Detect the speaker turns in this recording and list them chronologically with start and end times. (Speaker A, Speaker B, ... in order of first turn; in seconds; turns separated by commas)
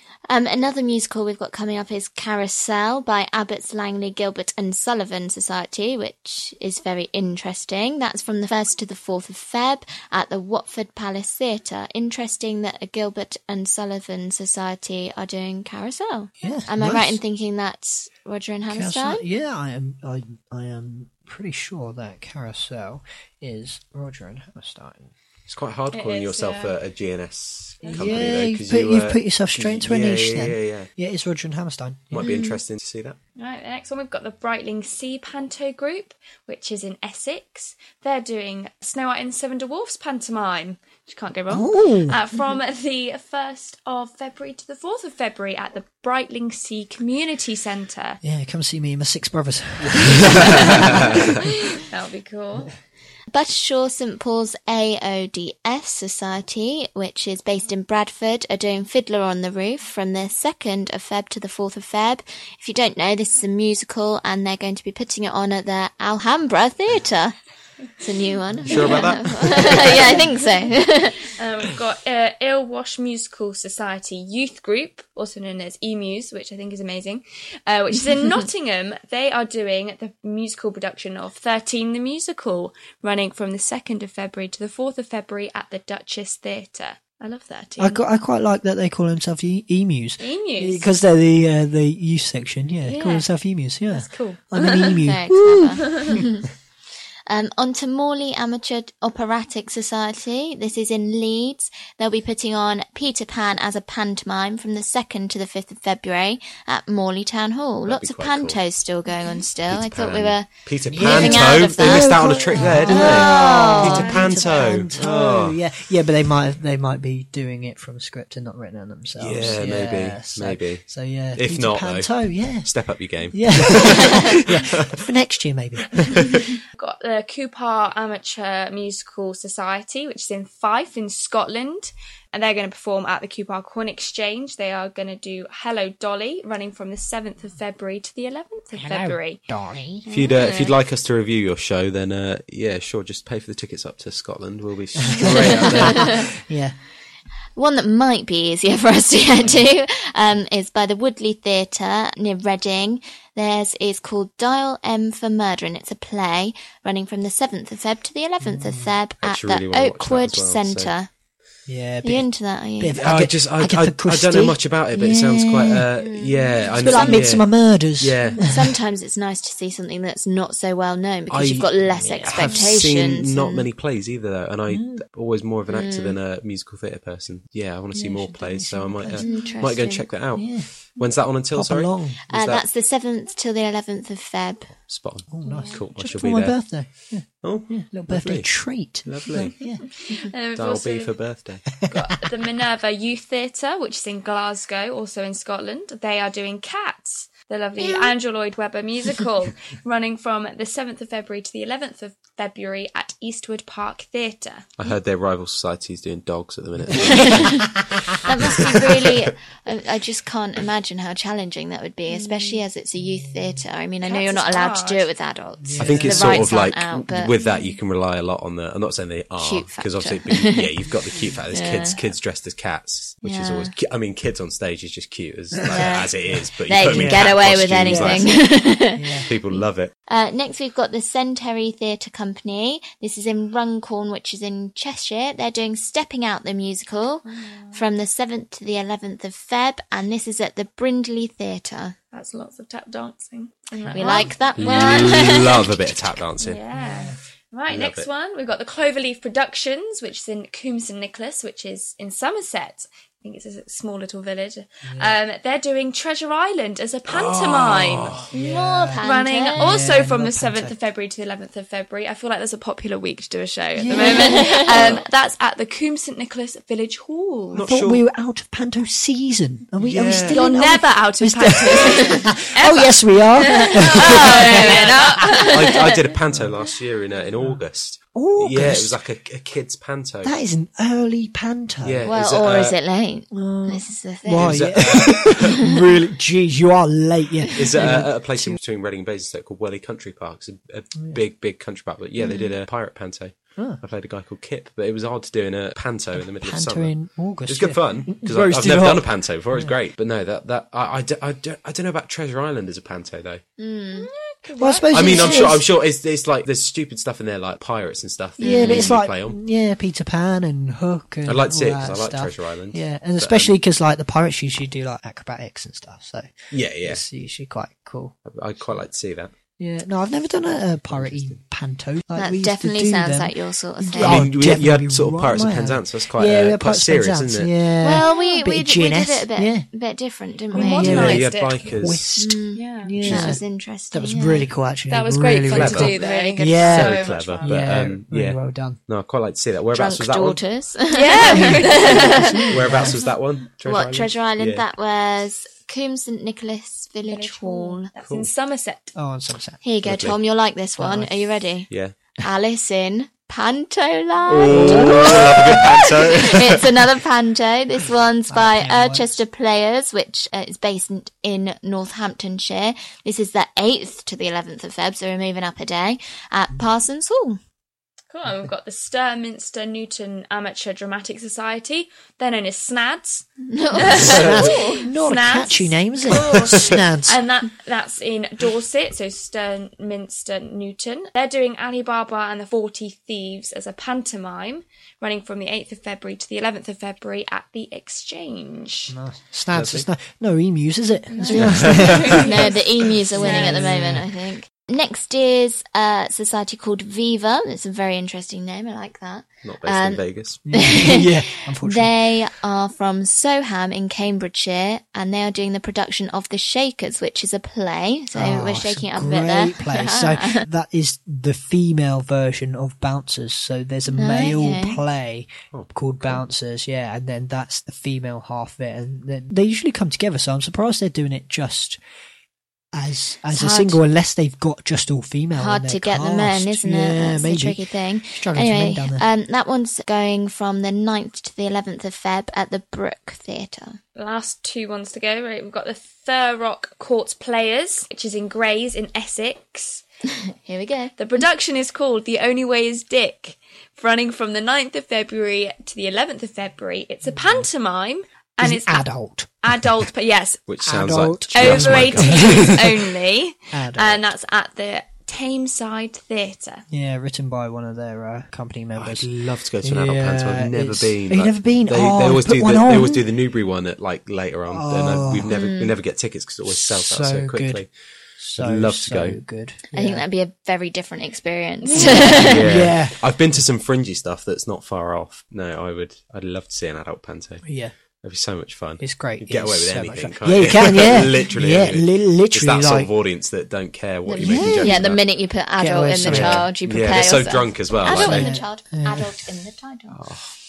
Speaker A: 0.3-19.2, Speaker B: 16.4-17.2, Speaker B: 18.7-25.1, Speaker C: 25.5-30.9, Speaker D: 25.9-26.7, Speaker D: 27.8-28.1, Speaker B: 27.9-32.3, Speaker C: 32.1-33.2, Speaker A: 32.2-32.6, Speaker D: 33.4-48.2, Speaker B: 41.5-42.2, Speaker B: 48.2-51.4, Speaker C: 49.8-51.2, Speaker D: 50.3-51.2, Speaker D: 51.8-52.7, Speaker A: 53.3-67.3, Speaker A: 68.0-71.3, Speaker C: 68.6-70.2, Speaker D: 68.7-69.1, Speaker D: 71.3-88.0, Speaker B: 87.8-96.3, Speaker D: 90.2-90.9, Speaker D: 92.8-93.3, Speaker D: 93.9-95.0, Speaker A: 95.0-96.5, Speaker D: 95.8-96.2, Speaker A: 97.3-114.2, Speaker C: 107.8-108.6, Speaker C: 109.7-115.6, Speaker B: 110.9-122.7, Speaker D: 113.8-114.9, Speaker C: 119.2-125.0, Speaker B: 123.3-126.4, Speaker D: 126.7-139.4, Speaker B: 138.8-140.0, Speaker A: 140.0-140.7, Speaker C: 140.1-146.3, Speaker B: 145.0-146.8, Speaker A: 145.2-146.1, Speaker A: 147.5-161.1, Speaker B: 158.4-158.9, Speaker C: 159.2-160.9, Speaker B: 161.7-162.2, Speaker A: 162.0-163.1, Speaker B: 162.8-165.9, Speaker C: 162.9-168.5, Speaker A: 166.0-167.3, Speaker B: 166.7-168.7, Speaker A: 168.4-173.6, Speaker C: 171.3-171.7, Speaker B: 171.4-172.7, Speaker C: 172.2-182.6, Speaker B: 174.7-175.0, Speaker A: 175.7-176.2, Speaker B: 177.9-179.5, Speaker A: 179.2-180.1, Speaker D: 179.3-179.6, Speaker B: 180.3-180.7, Speaker B: 181.5-182.2, Speaker A: 182.3-184.7, Speaker C: 184.8-186.8, Speaker B: 185.3-189.8, Speaker D: 185.4-185.7, Speaker A: 185.5-185.7, Speaker C: 187.4-189.6, Speaker D: 190.0-191.3, Speaker C: 190.6-191.7, Speaker B: 191.8-192.2, Speaker D: 191.8-204.7, Speaker C: 204.8-209.2, Speaker B: 206.9-207.2, Speaker A: 206.9-217.3, Speaker D: 212.1-212.6, Speaker B: 213.2-213.6, Speaker D: 214.0-215.1, Speaker B: 215.6-216.5, Speaker C: 215.8-228.3, Speaker D: 217.4-217.7, Speaker A: 219.4-220.9, Speaker A: 221.5-222.0, Speaker A: 223.2-223.7, Speaker A: 225.7-241.9, Speaker B: 226.8-229.3, Speaker C: 229.3-229.9, Speaker D: 237.2-237.8, Speaker D: 242.1-245.2, Speaker A: 243.9-245.9, Speaker C: 244.6-246.6, Speaker D: 246.4-258.3, Speaker B: 246.7-247.2, Speaker C: 247.7-248.1, Speaker B: 254.9-255.2, Speaker C: 257.1-258.3, Speaker B: 258.3-260.7, Speaker A: 258.3-259.8, Speaker D: 258.9-267.7, Speaker B: 263.7-264.9, Speaker A: 263.9-265.0, Speaker C: 267.5-268.0, Speaker B: 267.6-275.0, Speaker C: 269.8-270.6, Speaker D: 270.3-275.8, Speaker A: 271.7-272.3, Speaker A: 273.8-275.9, Speaker C: 275.5-280.3, Speaker B: 278.1-278.9, Speaker B: 280.2-282.1, Speaker C: 281.8-282.7, Speaker A: 282.0-284.7, Speaker B: 283.3-288.6, Speaker C: 284.4-285.7, Speaker C: 287.5-303.4, Speaker A: 292.2-292.5, Speaker B: 296.1-299.7, Speaker A: 303.6-304.1, Speaker D: 303.9-305.6, Speaker B: 304.6-305.6, Speaker C: 304.9-309.4, Speaker A: 305.1-305.4, Speaker A: 308.4-308.9, Speaker B: 308.4-318.1, Speaker C: 311.2-313.5, Speaker C: 316.5-317.0, Speaker C: 318.2-319.3, Speaker B: 319.6-329.7, Speaker C: 320.9-321.3, Speaker A: 322.1-324.3, Speaker C: 324.0-327.5, Speaker A: 327.8-331.2, Speaker D: 328.0-328.3, Speaker D: 330.5-331.8, Speaker B: 330.5-338.8, Speaker C: 330.8-332.1, Speaker A: 332.2-334.5, Speaker D: 332.5-333.3, Speaker D: 334.9-337.7, Speaker C: 335.5-336.0, Speaker A: 335.9-337.1, Speaker C: 336.5-340.4, Speaker A: 339.7-342.5, Speaker D: 340.9-342.9, Speaker B: 341.2-343.0, Speaker C: 342.5-344.6, Speaker A: 343.6-347.9, Speaker D: 347.0-348.9, Speaker B: 348.9-349.6, Speaker A: 349.6-367.4, Speaker C: 349.8-350.2, Speaker B: 350.8-351.3, Speaker C: 351.7-351.9, Speaker C: 354.3-356.7, Speaker D: 354.4-354.7, Speaker B: 354.5-355.5, Speaker B: 358.3-359.2, Speaker D: 368.1-388.9, Speaker A: 373.5-374.8, Speaker C: 373.9-374.3, Speaker B: 374.0-377.2, Speaker B: 388.9-392.5, Speaker C: 389.5-389.9, Speaker D: 391.1-392.6, Speaker C: 391.3-392.2, Speaker A: 392.1-410.4, Speaker B: 393.1-394.1, Speaker D: 393.1-393.8, Speaker C: 399.4-400.4, Speaker B: 400.5-401.9, Speaker B: 408.1-421.8, Speaker A: 413.9-414.8, Speaker C: 415.5-416.2, Speaker B: 422.7-429.0, Speaker A: 423.3-423.8, Speaker A: 425.3-433.8, Speaker D: 433.9-439.8, Speaker A: 440.3-440.9, Speaker D: 441.0-448.9, Speaker B: 448.4-449.8, Speaker D: 449.4-450.4, Speaker C: 450.5-452.6, Speaker B: 450.6-452.8, Speaker D: 451.3-456.6, Speaker B: 453.5-454.0, Speaker B: 456.7-463.0, Speaker C: 458.8-467.7, Speaker B: 464.5-465.3, Speaker A: 465.3-465.8, Speaker B: 466.5-467.6, Speaker B: 468.2-470.0, Speaker C: 468.4-469.2, Speaker A: 469.7-472.4, Speaker D: 471.6-472.3, Speaker C: 472.0-477.4, Speaker B: 472.0-473.0, Speaker B: 477.4-477.7, Speaker C: 478.0-485.0, Speaker B: 478.8-482.9, Speaker A: 484.1-490.0, Speaker B: 484.2-484.9, Speaker B: 485.6-486.5, Speaker C: 486.0-488.3, Speaker B: 487.8-489.1, Speaker C: 489.9-490.3